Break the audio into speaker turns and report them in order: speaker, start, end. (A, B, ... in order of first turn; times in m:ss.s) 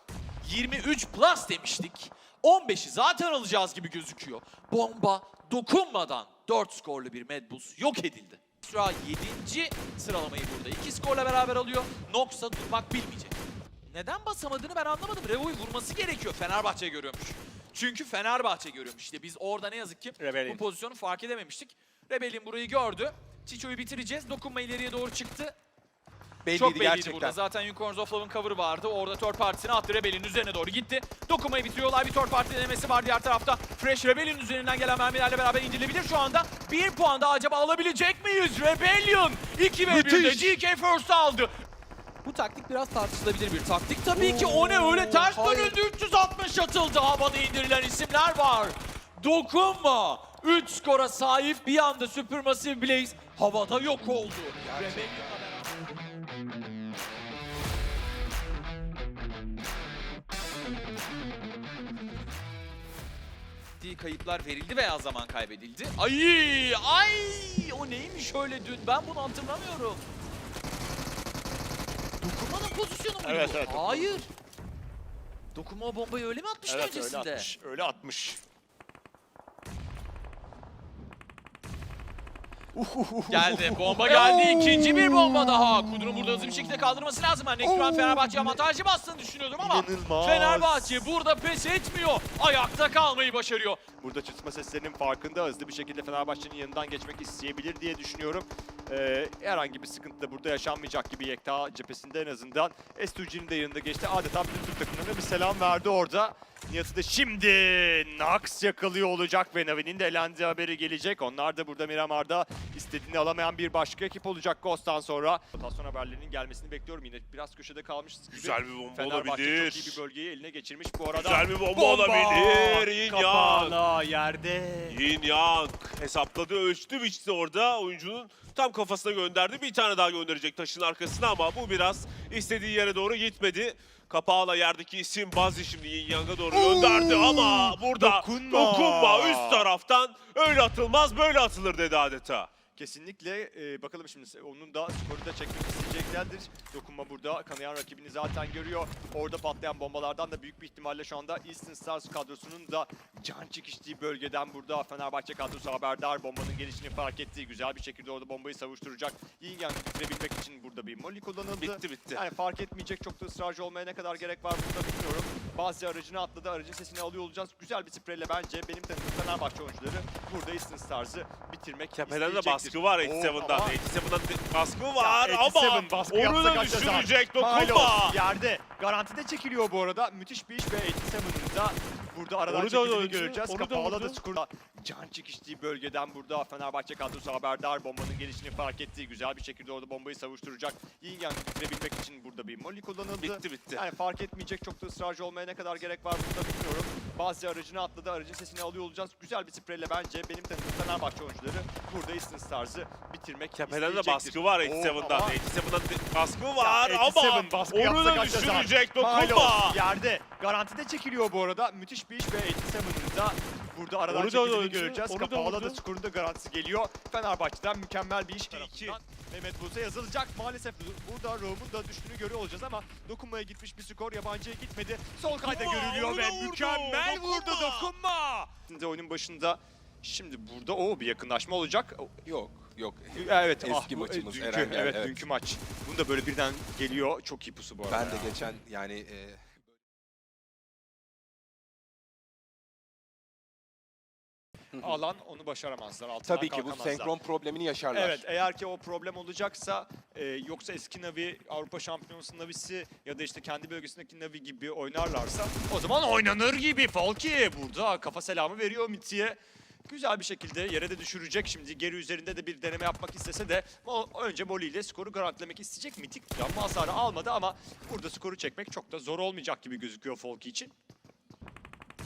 0:00.4-0:13.4 A
0:13.9-0:25.5 A
0:20.2-0:20.6 B
0:26.4-0:27.4 B
0:26.5-0:41.5 A
0:39.9-0:40.6 B
0:42.3-0:55.8 A
0:44.1-0:45.7 B
0:54.6-0:55.4 B
1:03.8-1:10.0 A
1:12.2-1:14.3 A
1:13.2-1:14.2 C
1:15.5-1:17.5 A
1:16.7-1:18.4 C
1:22.7-1:24.0 B
1:23.3-1:33.8 A
1:29.6-1:31.0 C
1:34.0-2:05.0 C
1:58.3-2:00.0 D
2:01.1-2:03.8 D
2:04.8-2:22.5 D
2:16.5-2:19.7 C
2:22.7-2:53.8 C
2:41.6-2:42.2 D
2:51.9-2:58.2 D
2:54.9-3:25.4 C
3:02.5-3:04.2 D
3:13.2-3:13.8 D
3:23.6-3:29.8 D
3:26.5-3:52.2 C
3:34.1-3:35.8 D
3:38.5-3:39.0 D
3:45.4-3:47.9 D
3:52.2-3:55.2 B
3:53.1-3:58.4 C
3:57.9-3:59.4 B
4:04.8-4:07.1 C
4:06.2-4:08.2 B
4:07.9-4:30.7 C